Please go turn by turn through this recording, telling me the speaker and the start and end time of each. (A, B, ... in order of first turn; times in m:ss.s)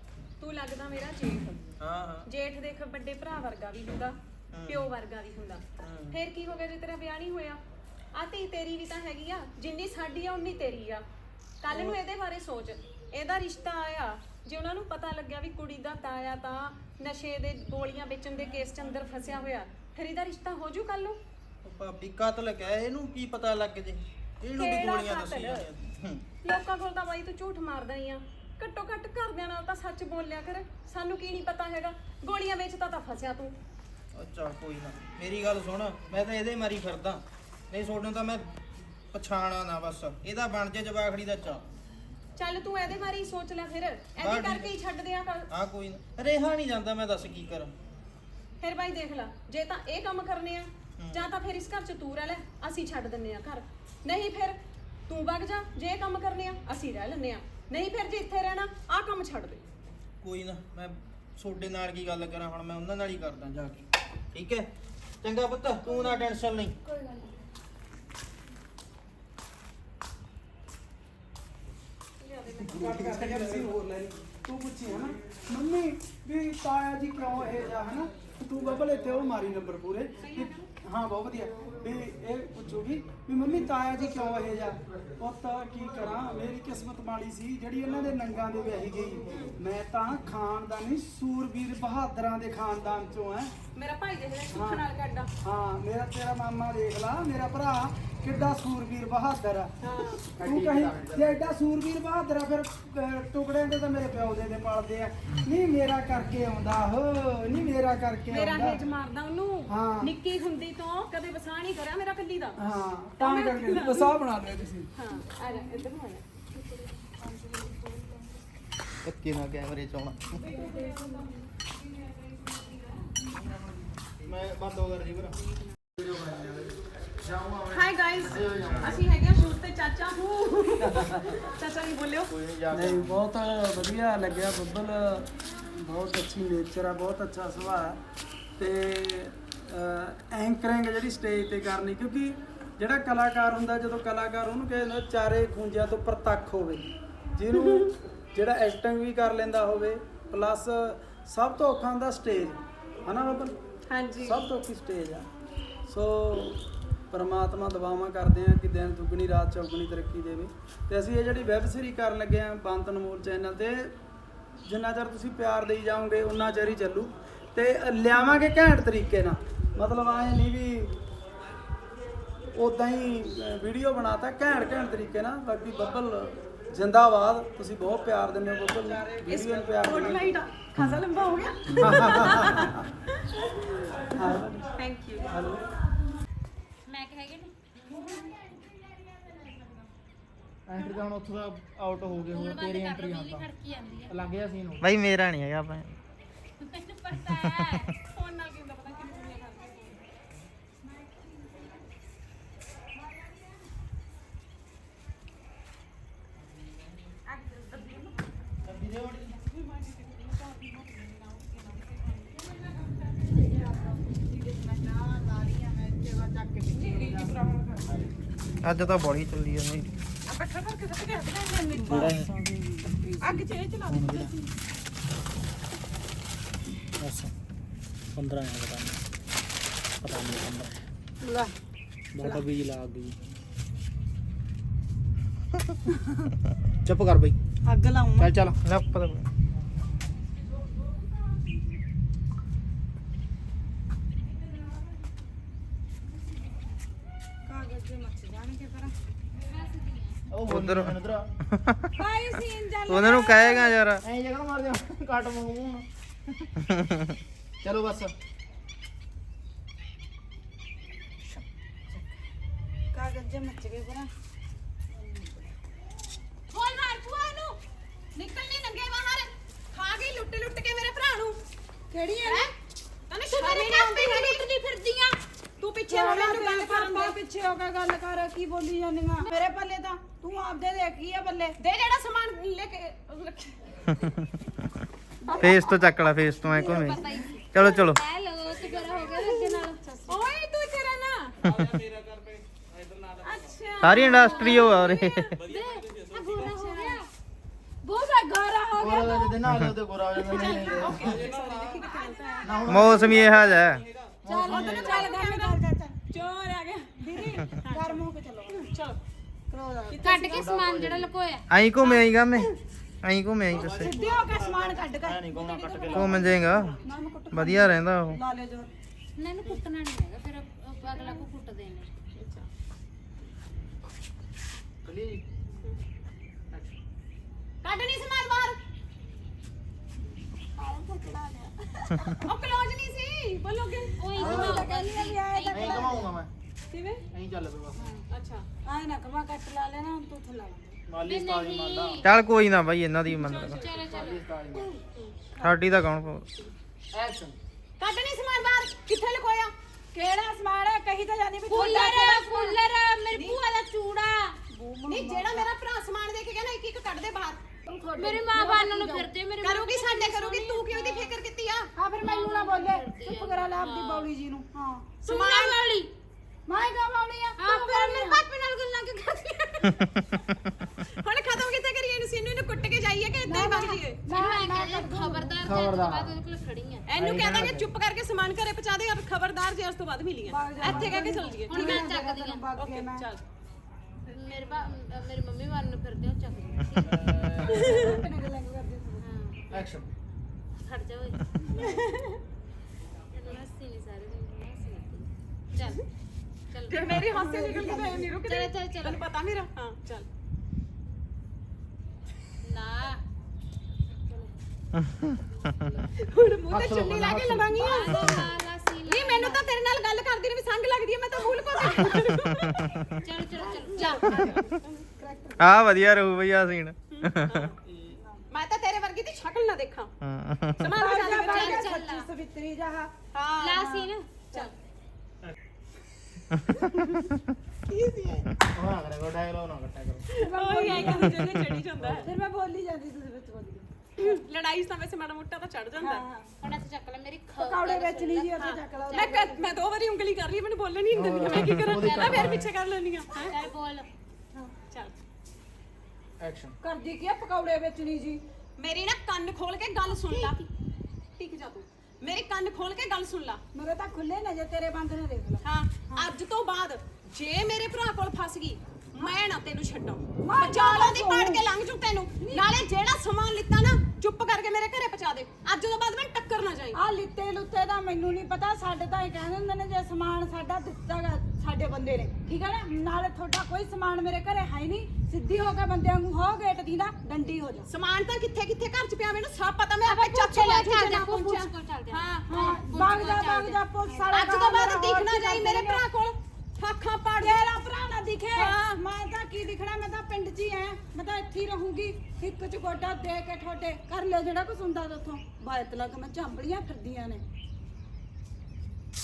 0:00.4-0:01.6 A
0:01.8-0:02.3 B
0:02.2-0:07.6 A
0:04.5-0:04.9 B
0:05.8-0:06.2 B
0:08.1-0:11.0 A
0:11.6-0:21.2 A
0:11.7-0:12.0 B
0:21.6-0:26.2 B
0:24.5-0:25.7 A
0:26.4-0:33.6 A
0:34.1-0:38.5 B
0:39.1-0:41.6 B
0:42.4-0:45.5 A
0:44.2-0:44.7 B
0:45.5-0:47.7 B
0:48.6-0:59.6 A
0:51.0-0:51.2 B
1:00.2-1:04.7 B
1:05.2-1:06.7 B
1:05.8-1:07.4 C
1:12.2-1:13.1 A
1:12.7-1:33.5 D
1:12.7-1:13.7 B
1:20.2-1:20.7 A
1:29.3-1:29.5 A
1:33.7-1:35.3 A
1:34.5-1:34.8 D
1:35.4-1:39.7 D
1:39.8-1:40.2 A
1:40.4-1:41.5 B
1:40.4-1:48.8 D
1:48.3-1:52.6 A
1:49.7-1:50.1 D
1:52.6-1:54.9 D
1:53.2-1:54.1 A
1:55.0-1:56.2 A
1:57.1-1:57.9 C
1:59.0-2:00.4 B
2:00.6-2:00.9 C
2:04.2-2:05.4 B
2:06.0-2:09.0 B
2:07.7-2:12.3 A
2:10.8-2:11.2 D
2:12.3-2:13.2 B
2:12.8-2:18.0 D
2:18.6-2:27.8 D
2:27.6-2:27.9 A
2:28.3-2:33.6 D
2:33.9-2:34.4 A
2:34.2-2:35.3 D
2:35.9-2:43.9 D
2:44.6-2:50.9 D
2:52.5-3:00.4 D
2:59.3-3:02.9 A
3:01.8-3:02.7 D
3:04.2-3:04.6 D
3:04.8-3:05.4 A
3:05.3-3:05.7 D
3:06.9-3:07.5 E
3:10.7-3:13.5 B
3:12.3-3:14.3 E
3:14.1-3:16.0 B
3:16.6-3:17.9 E
3:17.4-3:17.7 B
3:18.1-3:20.1 A
3:27.3-3:28.2 C
3:28.6-3:29.3 B
3:29.6-3:32.2 C
3:33.3-3:38.0 C
3:36.8-3:37.0 A
3:38.6-3:39.9 B
3:40.4-3:42.0 A
3:41.0-3:44.4 C
3:41.9-3:42.3 B
3:43.2-3:43.6 A
3:43.9-3:44.3 B
3:47.0-3:47.3 B
3:48.2-3:49.0 B
3:50.0-3:50.7 B
3:51.2-3:51.5 C
3:52.2-3:52.4 C
3:52.2-3:53.1 B
3:56.9-3:57.3 B
3:57.6-3:58.4 C
3:58.2-3:59.3 B
4:07.5-4:08.9 C
4:09.5-4:10.2 E
4:10.3-4:11.9 B
4:12.0-4:13.8 C
4:12.9-4:15.8 B
4:17.6-4:18.1 B
4:21.2-4:22.0 B
4:22.9-4:24.1 C
4:25.0-4:25.4 C
4:26.6-4:26.8 A
4:28.2-4:31.4 A
4:31.9-4:32.5 C
4:32.2-4:32.5 A
4:33.1-4:34.5 A
4:33.4-4:35.2 C
4:35.6-4:37.2 A
4:35.9-4:41.6 C
4:41.6-4:43.8 A
4:45.2-4:45.8 C
4:45.3-4:45.6 A
4:45.4-4:47.0 B
4:46.4-4:49.8 E
4:46.5-4:47.2 C
4:47.5-4:48.0 B
4:49.0-4:50.2 C
4:50.1-4:51.4 A
4:51.5-4:51.8 B
4:53.2-4:55.0 A
4:53.8-4:55.4 B
4:54.0-4:54.8 C
4:55.4-4:57.0 E
4:56.1-4:57.0 C
4:57.8-4:59.4 C
4:58.8-5:01.2 B
5:00.1-5:03.3 C
5:00.2-5:03.0 A
5:02.4-5:05.1 B
5:04.2-5:06.0 C
5:04.6-5:08.0 A
5:07.0-5:08.6 C
5:08.5-5:09.0 A
5:09.5-5:10.3 C
5:09.9-5:10.4 A
5:10.0-5:11.5 E
5:10.3-5:12.5 B
5:11.8-5:12.5 A
5:13.0-5:14.0 B
5:13.5-5:18.7 C
5:15.0-5:16.8 B
5:17.3-5:18.2 B
5:19.2-5:21.9 E
5:22.2-5:22.5 A
5:24.8-5:25.2 B
5:27.6-5:28.6 A
5:30.6-5:32.3 C
5:32.2-5:34.0 A
5:34.0-5:36.0 E
5:34.2-5:36.2 C
5:34.2-5:34.6 B
5:35.5-5:36.3 B
5:36.7-5:37.0 A
5:37.1-5:37.9 B
5:37.8-5:38.0 C
5:38.1-5:38.5 A
5:38.6-5:40.8 C
5:40.9-5:44.7 B
5:41.0-5:42.2 E
5:43.5-5:44.2 E
5:44.9-5:45.2 A
5:45.4-5:46.3 B
5:46.9-5:47.4 B
5:47.8-5:49.5 A
5:49.9-5:52.3 C
5:51.5-5:54.4 E
5:53.1-5:53.4 A
5:54.5-5:55.4 C
5:54.9-5:57.4 A
5:57.7-5:59.1 C
5:58.0-6:01.2 E
5:59.4-6:01.7 A
6:01.8-6:04.9 C
6:02.0-6:04.1 E
6:05.0-6:05.6 A
6:05.0-6:05.9 E
6:06.5-6:08.2 C
6:07.4-6:08.0 E
6:07.4-6:10.2 A
6:10.8-6:14.0 A
6:13.2-6:15.4 C
6:14.1-6:16.9 E
6:15.5-6:16.1 B
6:16.9-6:21.9 A
6:17.0-6:17.6 B
6:20.3-6:23.0 C
6:21.5-6:22.4 E
6:22.6-6:23.2 A
6:24.1-6:27.5 E
6:27.0-6:27.7 B
6:27.5-6:29.0 C
6:27.5-6:27.8 A
6:29.0-6:29.7 E
6:29.5-6:29.9 B
6:30.6-6:31.8 E
6:33.1-6:35.8 E
6:36.5-6:37.0 E
6:36.7-6:40.1 A
6:36.9-6:38.1 C
6:38.3-6:39.0 E
6:42.4-6:43.0 E
6:46.0-6:48.1 A
6:46.5-6:47.5 B
6:47.6-6:49.5 E
6:48.9-6:52.7 A
6:53.0-6:54.5 E
6:53.4-6:54.5 C
6:53.8-6:54.5 A
6:55.0-6:55.6 C
6:55.4-6:57.8 B
6:56.9-6:57.6 A
6:58.0-6:58.2 C
6:58.3-6:59.9 A
7:00.0-7:00.7 B
7:00.6-7:01.7 A
7:00.7-7:02.9 C
7:01.2-7:02.1 E
7:03.1-7:03.7 A
7:03.4-7:04.1 E
7:03.6-7:04.5 C
7:07.7-7:08.3 A
7:08.6-7:10.0 B
7:10.1-7:12.1 A
7:10.2-7:11.1 C
7:10.9-7:12.0 B
7:12.0-7:14.2 C
7:14.0-7:16.0 A
7:15.8-7:16.3 C
7:16.4-7:19.2 E
7:17.4-7:19.4 C
7:18.4-7:23.4 A
7:20.9-7:22.5 B
7:21.3-7:22.4 E
7:23.2-7:23.9 E
7:24.7-7:25.0 A
7:26.2-7:26.5 B
7:26.6-7:28.2 C
7:28.6-7:30.4 A
7:29.9-7:30.5 E
7:31.2-7:33.4 A
7:33.5-7:36.0 C
7:35.4-7:46.8 A
7:40.2-7:41.4 C
7:42.2-7:42.6 C
7:46.7-7:57.7 C
7:57.7-8:00.9 A
7:59.8-8:01.5 C
8:00.3-8:04.1 E
8:01.9-8:03.1 A
8:02.3-8:05.8 C
8:04.1-8:07.5 A
8:07.2-8:17.2 C
8:08.4-8:08.6 A